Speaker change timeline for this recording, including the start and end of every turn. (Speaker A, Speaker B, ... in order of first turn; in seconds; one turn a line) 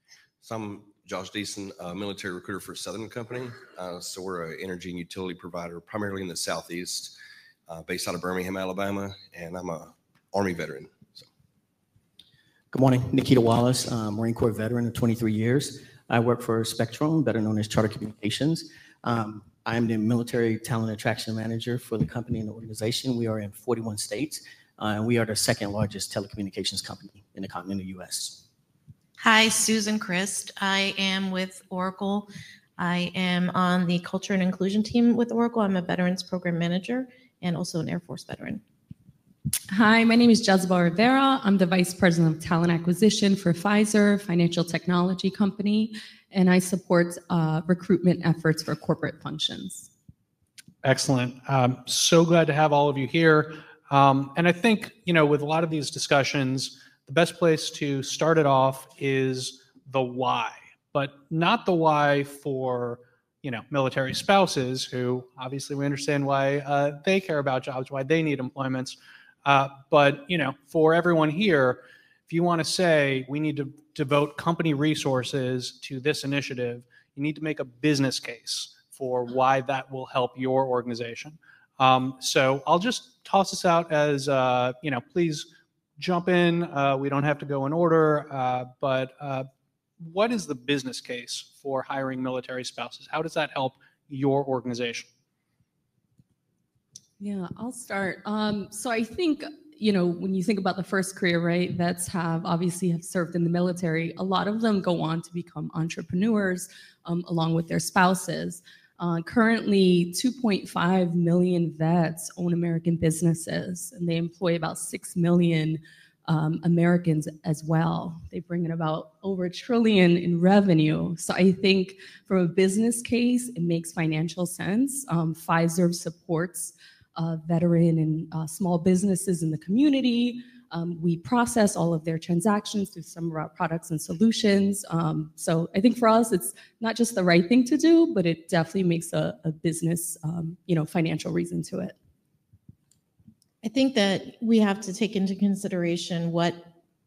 Speaker A: 0.4-7.2
Speaker A: 7.7-11.3
Speaker B: 12.7-28.4
Speaker C: 29.2-38.6
Speaker D: 39.7-49.9
Speaker E: 50.8-85.5
Speaker E: 86.0-89.5
Speaker E: 90.0-95.1
Speaker D: 97.2-141.9
Speaker C: 143.6-146.7